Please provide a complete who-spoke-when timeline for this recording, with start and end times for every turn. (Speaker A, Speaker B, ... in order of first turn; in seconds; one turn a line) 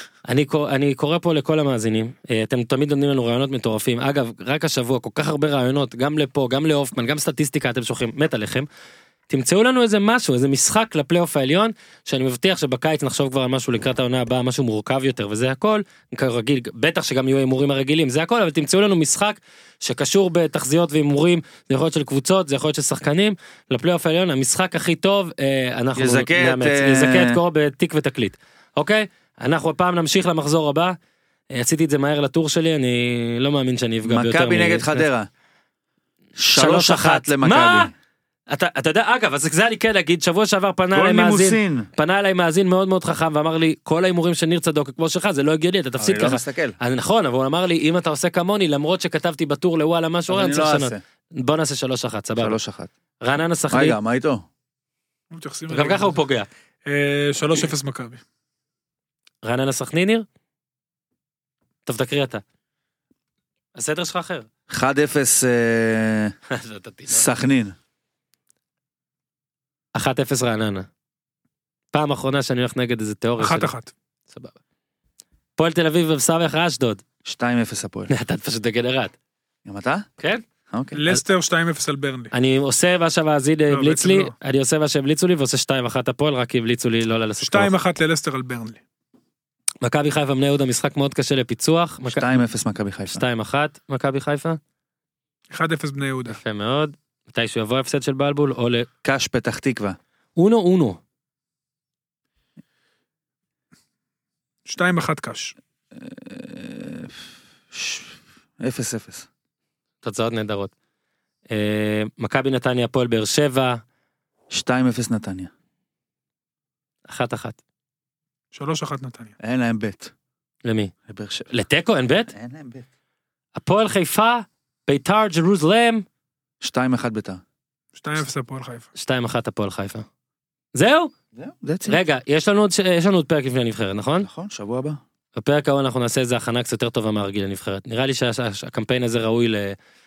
Speaker A: 0.2-8.7
Speaker A: 9.3-30.9
Speaker B: 25.9-27.4
Speaker A: 31.5-35.1
Speaker B: 34.0-35.3
Speaker B: 36.4-37.9
Speaker A: 36.5-37.9
Speaker A: 38.5-52.5
Speaker B: 40.9-41.9
Speaker B: 46.0-46.8
Speaker B: 50.3-51.0
Speaker B: 52.4-52.9
Speaker A: 53.2-54.0
Speaker B: 53.7-54.4
Speaker C: 55.3-56.2
Speaker A: 55.7-56.5
Speaker C: 56.9-58.2
Speaker A: 59.4-60.2
Speaker A: 61.9-62.4
Speaker A: 63.7-64.5
Speaker B: 64.7-66.3
Speaker A: 66.5-67.3
Speaker B: 67.1-67.8
Speaker A: 69.9-70.9
Speaker A: 71.9-73.7
Speaker C: 73.4-73.9
Speaker A: 75.6-77.0
Speaker B: 77.2-78.1
Speaker A: 78.1-79.1
Speaker B: 79.6-80.0
Speaker B: 80.7-81.0
Speaker C: 80.9-82.3
Speaker A: 82.3-87.7
Speaker C: 83.7-84.3
Speaker C: 87.4-88.8
Speaker A: 89.8-92.4
Speaker B: 92.0-93.2
Speaker A: 93.1-94.6
Speaker C: 95.5-96.4
Speaker A: 96.3-98.9
Speaker B: 99.0-100.0
Speaker A: 100.3-101.0
Speaker C: 104.7-105.5
Speaker B: 105.9-107.2
Speaker B: 107.7-109.3
Speaker A: 110.0-110.7
Speaker A: 111.5-113.8
Speaker B: 114.5-115.5
Speaker A: 117.1-117.6
Speaker C: 118.5-119.3
Speaker B: 119.4-120.1
Speaker A: 120.6-120.9
Speaker B: 121.1-121.5
Speaker A: 121.5-122.3
Speaker B: 122.3-122.8
Speaker A: 123.5-126.0
Speaker B: 126.6-127.4
Speaker C: 128.0-128.9
Speaker A: 128.9-130.0
Speaker A: 130.7-131.1
Speaker B: 131.3-132.0
Speaker A: 131.8-134.3
Speaker B: 134.2-135.0
Speaker A: 135.4-139.8